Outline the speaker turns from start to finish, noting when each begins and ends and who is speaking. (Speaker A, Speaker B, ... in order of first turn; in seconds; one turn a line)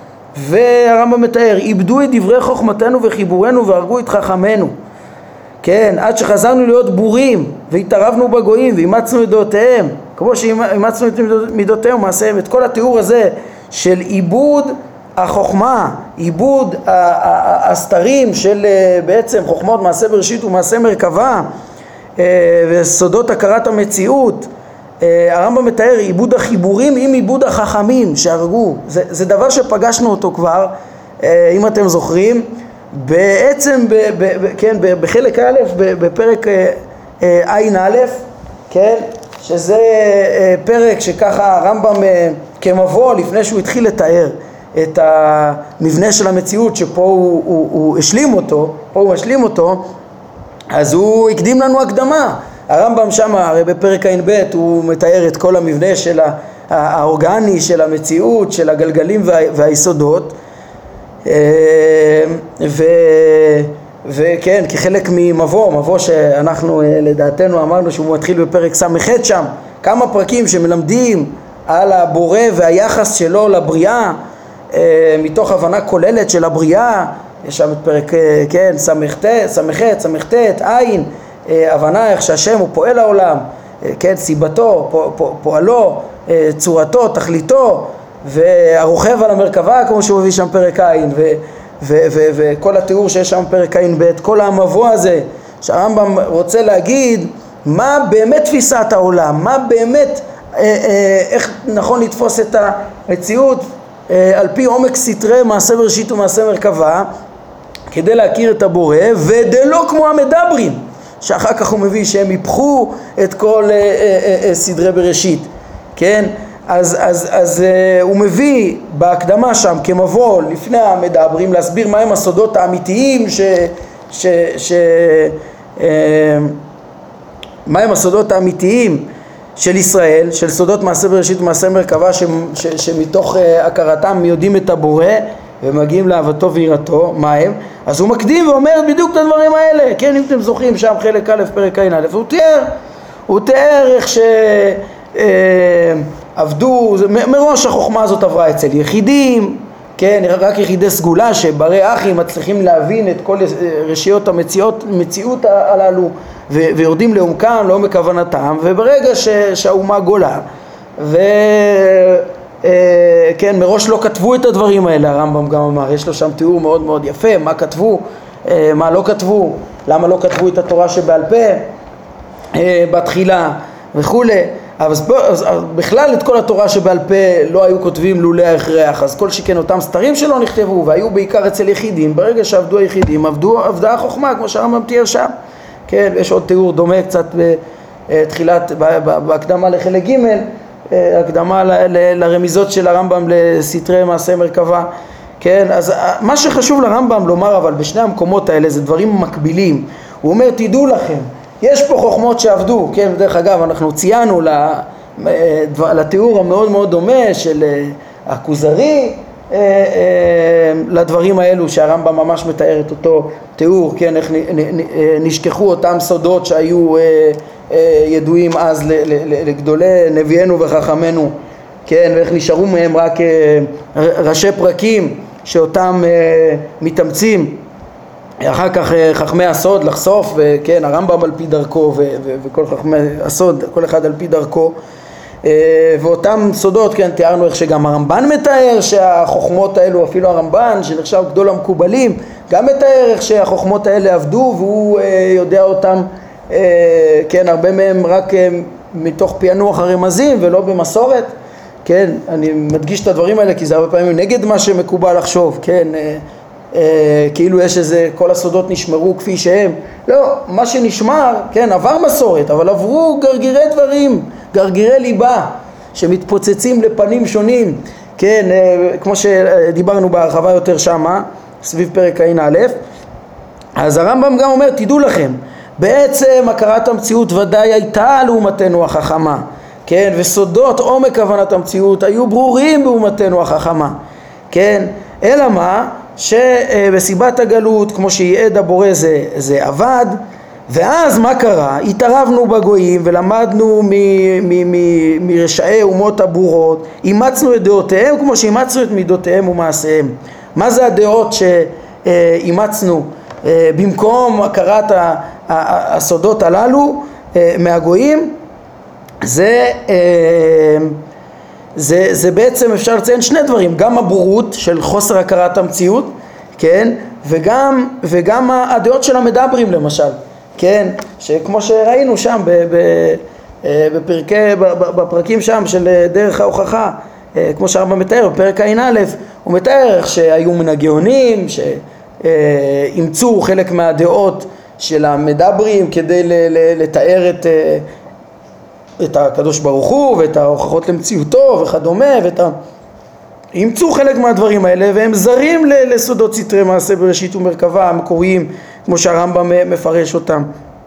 Speaker A: 0.3-4.7
Speaker A: 5.6-21.5
Speaker A: 22.2-24.5
Speaker A: 25.0-49.9
Speaker A: 50.7-60.4
Speaker A: 61.3-74.2
Speaker A: 74.7-107.1
Speaker A: 107.9-126.6
Speaker A: 127.7-142.7
Speaker A: 143.3-160.4
Speaker A: 161.0-171.7
Speaker A: 172.6-185.3
Speaker A: 185.9-194.9
Speaker A: 195.4-227.6
Speaker A: 228.4-234.8
Speaker A: 235.4-251.3
Speaker A: 251.8-272.8
Speaker A: 273.8-284.0
Speaker A: 284.5-308.3
Speaker A: 309.2-311.0
Speaker A: 311.8-337.9
Speaker A: 339.0-342.6
Speaker A: 343.5-350.5